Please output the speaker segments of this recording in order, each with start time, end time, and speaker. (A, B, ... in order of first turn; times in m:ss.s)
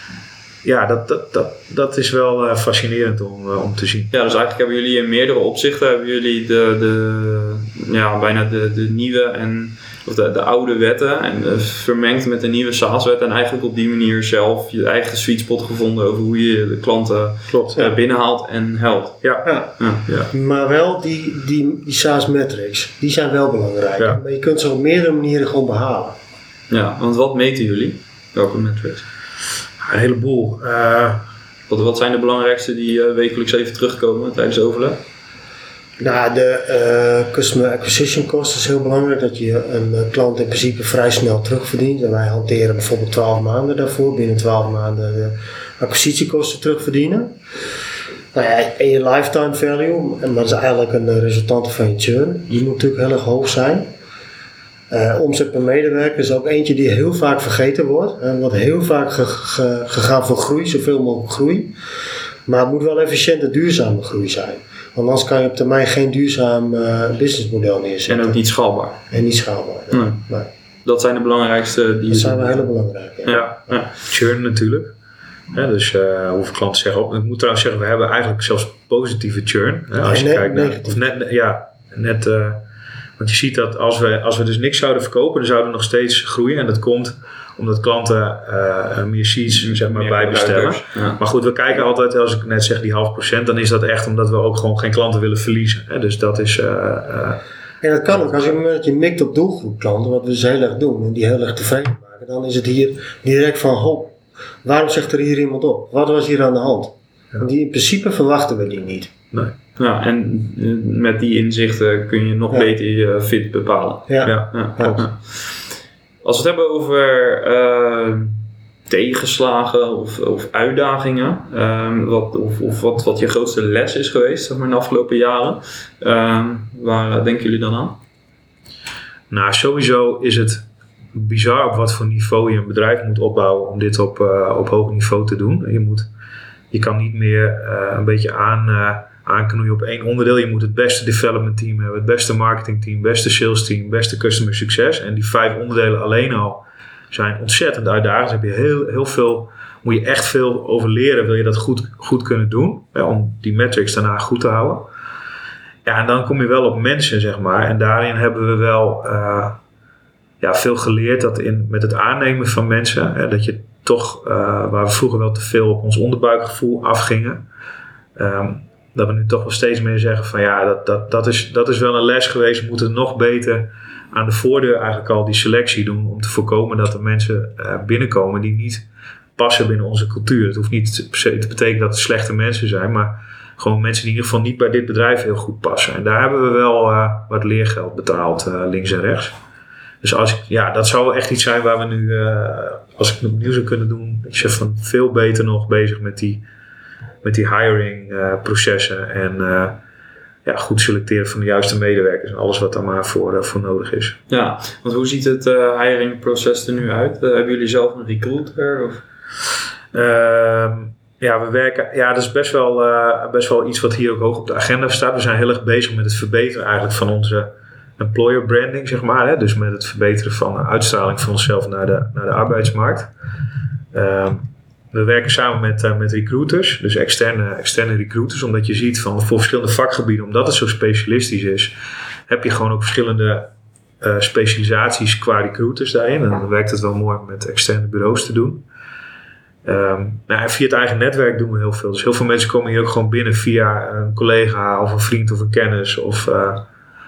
0:00.6-0:04.1 A
0:04.1-0:19.2 B
0:17.5-0:17.8 A
0:19.2-0:19.5 A
0:19.4-0:19.7 C
0:19.8-0:20.1 B
0:20.3-0:26.2 C
0:26.7-0:29.0 B
0:29.8-0:31.3 A
0:31.7-0:35.0 B
0:36.0-0:47.4 C
0:48.3-0:53.9 C
0:54.9-1:01.8 C
1:02.4-1:08.4 C
1:08.1-1:09.0 B
1:09.1-1:10.5 C
1:09.9-1:10.2 B
1:10.8-1:12.6 B
1:12.1-1:13.8 C
1:13.2-1:14.0 B
1:13.3-1:14.9 A
1:15.5-1:22.6 A
1:20.0-1:21.0 C
1:23.2-1:37.4 A
1:29.6-1:31.2 B
1:37.8-1:49.1 C
1:49.8-1:55.6 B
1:54.1-1:55.0 C
1:54.2-1:55.0 A
1:56.2-2:08.0 B
2:09.3-2:16.1 A
2:16.7-2:34.9 A
2:35.8-2:39.6 A
2:40.4-2:47.5 A
2:48.2-2:58.8 A
2:59.4-3:09.4 A
3:10.0-3:16.4 A
3:17.2-3:19.8 A
3:20.4-3:24.2 A
3:24.3-3:29.0 B
3:29.9-3:43.1 A
3:43.9-3:51.8 A
3:52.3-3:58.6 A
3:59.6-4:06.7 A